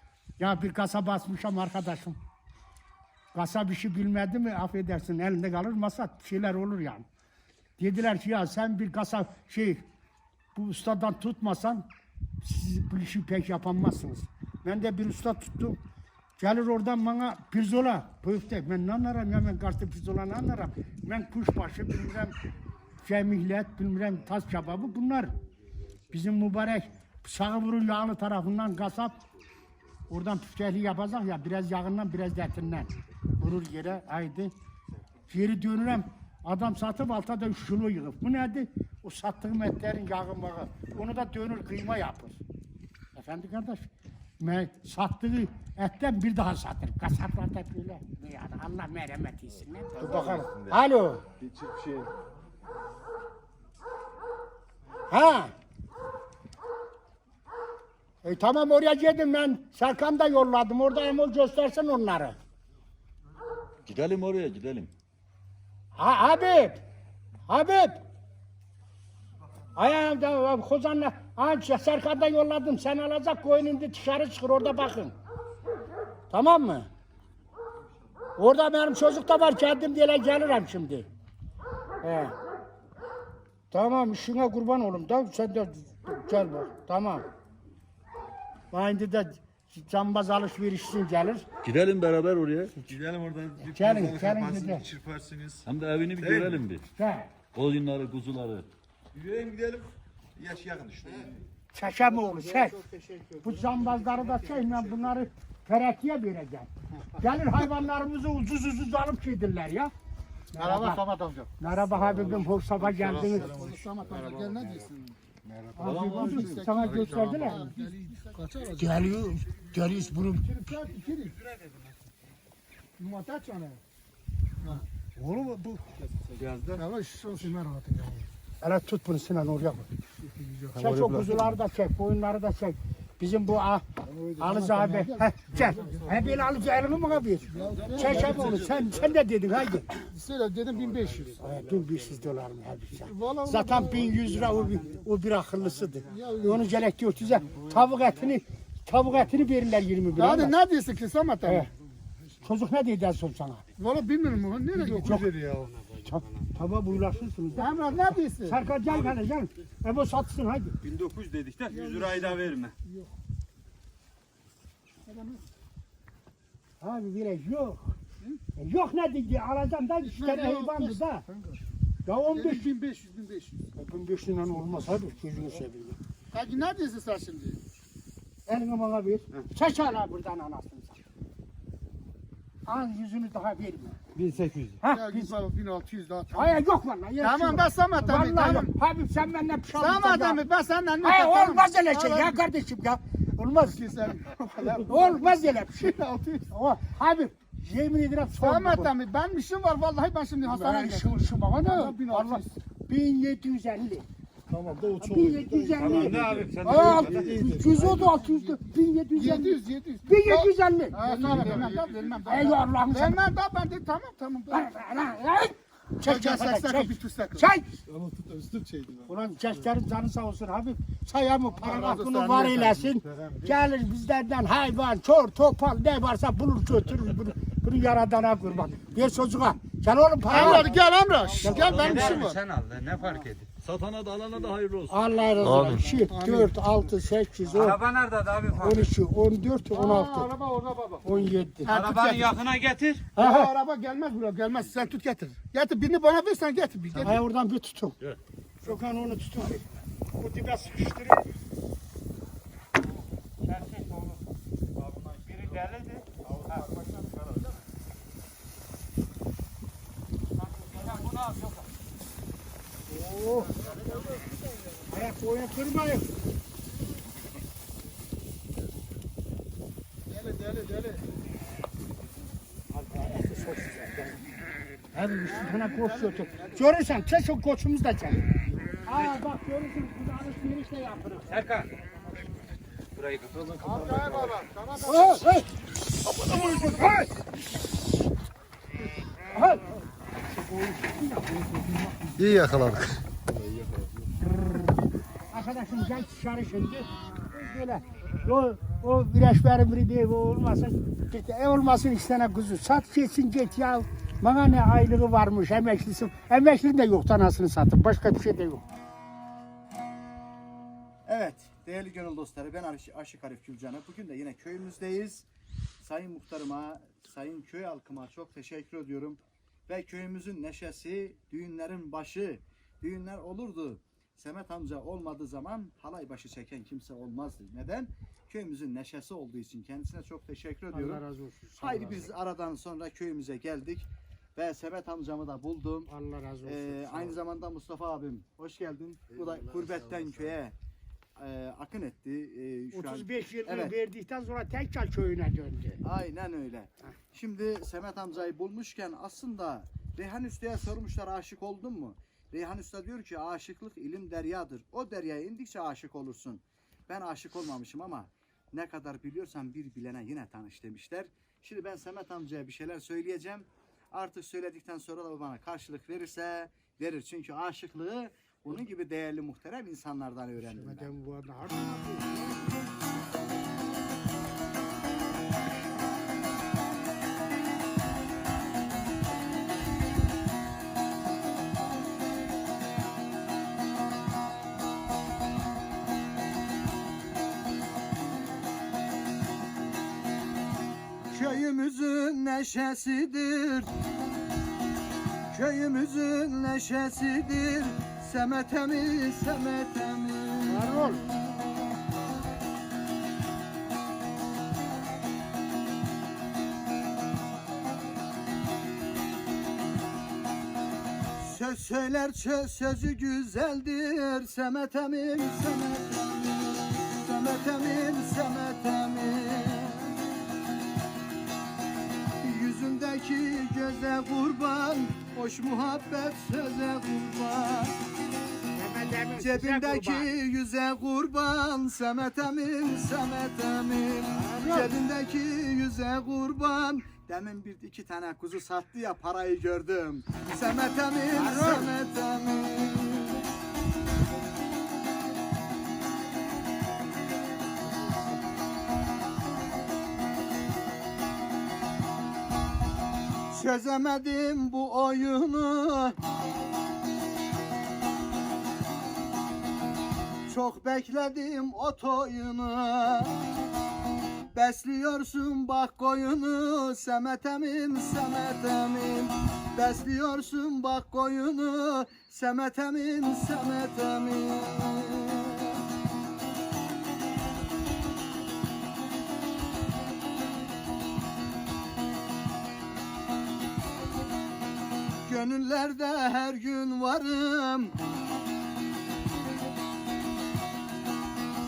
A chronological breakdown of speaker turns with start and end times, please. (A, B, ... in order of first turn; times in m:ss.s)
0:00.4-0:02.2 A
0:03.3-0:07.0 A
0:07.8-0:09.8 A
0:10.5-0:11.8 A
0:12.4-0:15.8 A
0:16.4-0:22.3 A
0:23.0-0:25.3 A
0:26.1-0:29.2 A
0:30.1-0:34.5 A
0:35.3-0:42.4 A
0:43.1-0:43.9 A
0:44.4-0:51.2 A
0:49.9-0:50.8 B
0:51.4-0:52.1 B
0:55.1-0:55.5 A
0:58.2-1:02.4 A
1:03.8-1:04.9 C
1:06.0-1:06.8 A
1:07.5-1:08.0 A
1:09.8-1:15.1 A
1:16.3-1:16.9 A
1:18.4-1:21.1 A
1:22.0-1:22.4 A
1:23.7-1:27.2 A
1:28.7-1:31.4 A
1:31.6-1:32.8 C
1:32.8-1:35.6 B
1:33.6-1:34.8 A
1:35.6-1:36.9 C
1:36.2-1:36.6 B
1:37.0-1:37.3 A
1:37.5-1:38.7 C
1:39.1-1:41.4 B
1:41.7-1:42.8 A
1:42.4-1:44.8 D
1:43.4-1:49.9 A
1:50.5-1:51.0 A
1:50.6-1:51.5 E
1:51.6-1:53.5 A
1:53.0-1:59.2 E
1:55.8-1:57.7 A
1:58.8-2:00.5 A
2:00.4-2:01.4 E
2:01.3-2:02.0 F
2:03.0-2:03.8 E
2:05.2-2:05.8 A
2:06.3-2:06.8 F
2:06.7-2:08.3 E
2:08.6-2:09.9 A
2:10.2-2:11.1 E
2:10.7-2:13.8 A
2:14.1-2:16.1 E
2:14.4-2:20.0 A
2:17.5-2:18.6 E
2:17.6-2:19.2 C
2:20.0-2:21.5 E
2:21.4-2:30.6 A
2:23.0-2:24.8 E
2:26.1-2:26.7 E
2:30.2-2:31.7 E
2:31.4-2:31.7 A
2:32.4-2:33.6 A
2:33.8-2:35.8 E
2:34.7-2:35.3 A
2:36.0-2:37.8 A
2:37.5-2:38.6 E
2:38.4-2:40.7 A
2:38.9-2:39.1 F
2:40.8-2:42.7 F
2:41.7-2:43.1 E
2:45.0-2:45.4 E
2:46.8-2:47.9 A
2:48.6-2:51.2 A
2:50.0-2:51.6 E
2:52.0-2:52.7 A
2:52.3-2:53.6 E
2:53.7-2:56.0 A
2:56.3-2:57.6 E
2:58.5-3:01.0 A
3:02.6-3:04.0 A
3:04.2-3:04.8 F
3:04.8-3:05.3 A
3:04.8-3:06.6 E
3:06.3-3:10.4 A
3:07.2-3:08.7 E
3:09.8-3:12.4 E
3:11.0-3:13.8 A
3:13.6-3:16.5 E
3:14.8-3:16.0 A
3:16.5-3:18.9 A
3:18.4-3:22.6 E
3:20.4-3:24.1 A
3:24.5-3:28.6 E
3:25.0-3:31.7 A
3:25.8-3:27.4 F
3:29.1-3:34.7 E
3:32.2-3:33.2 A
3:34.5-3:37.8 A
3:36.0-3:39.1 E
3:39.1-3:50.8 A
3:41.6-3:43.4 E
3:50.3-3:52.4 E
3:50.3-3:50.7 F
3:51.4-3:52.2 A
3:51.5-3:53.5 F
3:53.6-3:55.6 C
3:54.9-3:57.8 A
3:55.5-3:56.5 E
3:57.5-3:58.9 F
3:58.6-4:00.3 A
3:59.7-4:01.0 E
4:01.0-4:01.7 A
4:01.6-4:03.1 F
4:01.7-4:02.2 E
4:03.1-4:03.5 A
4:03.2-4:07.2 E
4:07.0-4:08.0 A
4:08.6-4:09.6 A
4:10.2-4:11.2 A
4:13.4-4:16.7 F
4:20.4-4:21.7 F
4:23.0-4:23.5 A
4:24.9-4:26.1 A
4:30.1-4:31.0 E
4:32.9-4:34.0 A
4:33.0-4:33.5 F
4:34.9-4:38.3 A
4:35.3-4:36.6 E
4:38.8-4:41.4 A
4:41.3-4:41.8 F
4:42.9-4:44.4 F
4:43.6-4:45.2 E
4:44.8-4:45.5 A
4:46.2-4:47.1 A
4:49.3-4:49.7 A
4:50.3-4:52.9 A
4:55.3-5:08.6 A
5:11.0-5:15.2 D
5:15.8-5:31.0 D
5:30.7-5:32.1 A
5:31.6-5:35.9 D
5:35.9-5:37.2 A
5:36.4-5:40.5 D
5:41.2-5:43.7 D
5:42.7-5:45.8 A
5:45.8-6:10.8 D
6:10.4-6:12.7 A
6:31.1-6:33.7 D
6:35.3-6:41.2 D
6:40.5-6:41.0 A
6:51.2-6:59.9 D
7:02.2-7:07.8 D
7:08.5-7:10.1 A
7:09.2-7:23.2 D
7:14.1-7:14.7 A
7:21.1-7:21.7 A
7:33.3-7:36.0 D
7:40.3-7:43.2 D
7:44.3-7:55.6 D
8:05.0-8:07.7 D